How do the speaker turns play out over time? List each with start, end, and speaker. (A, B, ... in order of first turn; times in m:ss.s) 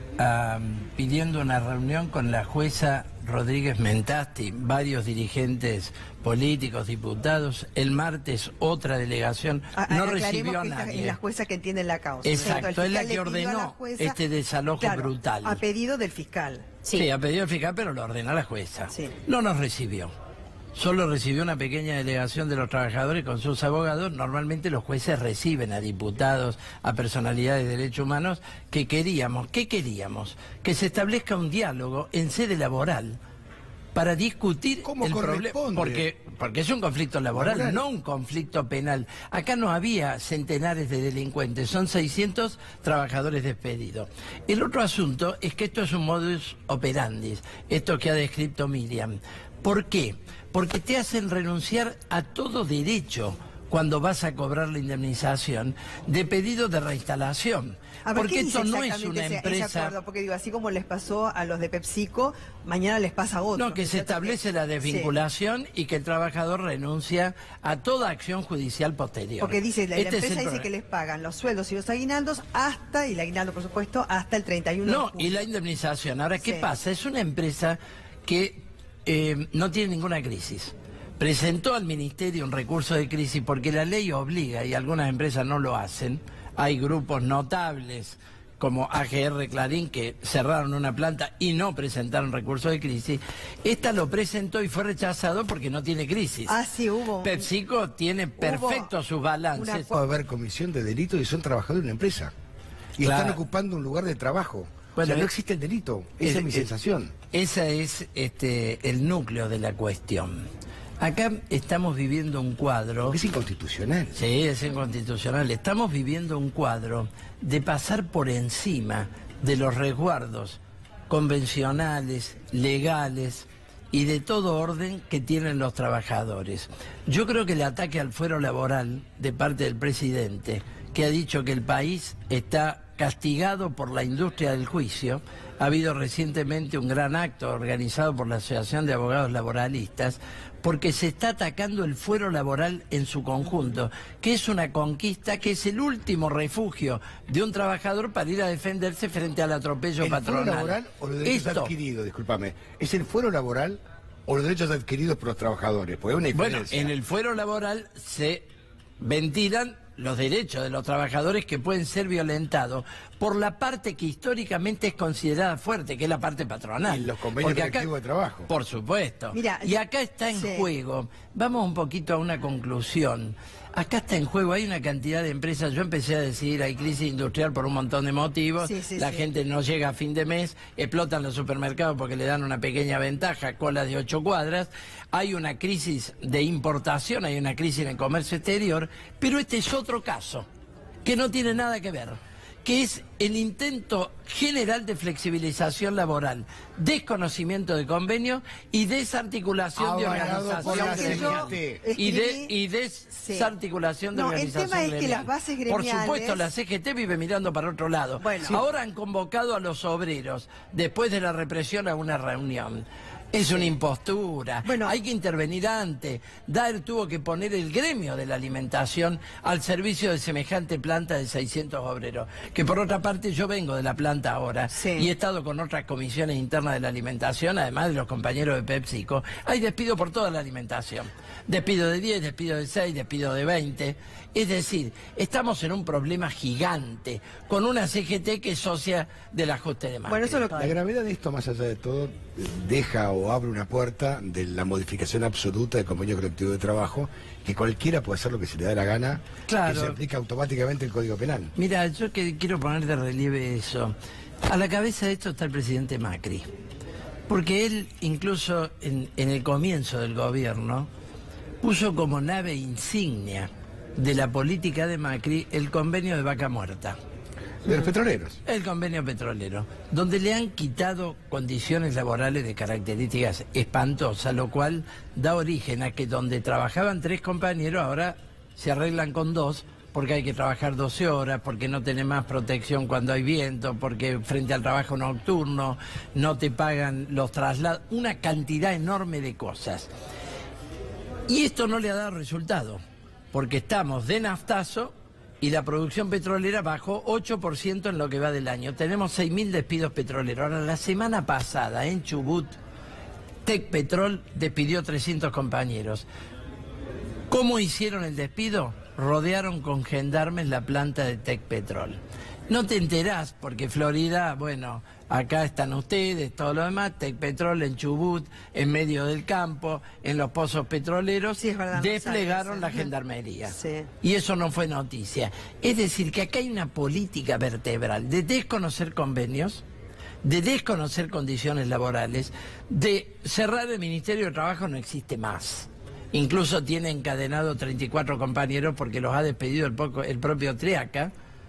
0:00.2-0:11.2 A
0:09.7-0:14.2 B
0:12.2-0:15.6 A
0:14.8-0:16.8 B
0:16.9-0:20.1 A
0:20.7-0:33.2 A
0:33.9-0:59.9 A
0:34.8-0:36.0 C
0:37.3-0:37.8 C
0:58.0-1:05.1 B
1:03.5-1:10.7 A
1:09.4-1:15.4 B
1:14.8-1:36.6 A
1:16.4-1:16.7 B
1:36.5-1:37.5 B
1:37.2-1:39.9 A
1:38.4-1:38.9 B
1:39.5-1:40.0 B
1:39.9-1:42.3 C
1:43.0-1:47.1 C
1:43.0-1:43.4 A
1:44.9-1:45.3 A
1:46.2-1:46.7 A
1:47.3-1:50.4 A
1:51.0-1:53.2 A
1:53.1-1:54.2 C
1:54.1-2:31.7 A
2:30.0-2:36.9 C
2:36.3-2:38.4 A
2:39.0-2:47.9 A
2:46.8-2:48.5 C
2:48.5-3:10.5 A
2:49.3-2:49.8 B
2:50.3-2:50.7 B
2:58.6-2:59.3 B
3:11.0-4:00.5 A
3:19.8-3:21.8 C
3:20.0-3:22.5 B
3:23.2-3:23.5 B
3:24.1-3:26.5 B
3:28.2-3:28.6 B
3:34.6-3:34.9 B
3:44.7-3:45.1 B
4:00.1-4:00.8 B
4:00.5-4:11.5 C
4:09.5-4:10.0 A
4:11.6-4:16.5 A
4:17.3-4:20.9 A
4:21.6-4:27.0 A
4:27.6-4:28.4 C
4:28.4-4:49.9 A
4:51.3-4:52.8 A
4:53.3-5:02.5 A
5:03.4-5:06.1 A
5:07.3-5:29.6 A
5:21.4-5:22.9 B
5:23.4-5:23.9 B
5:30.2-5:41.1 A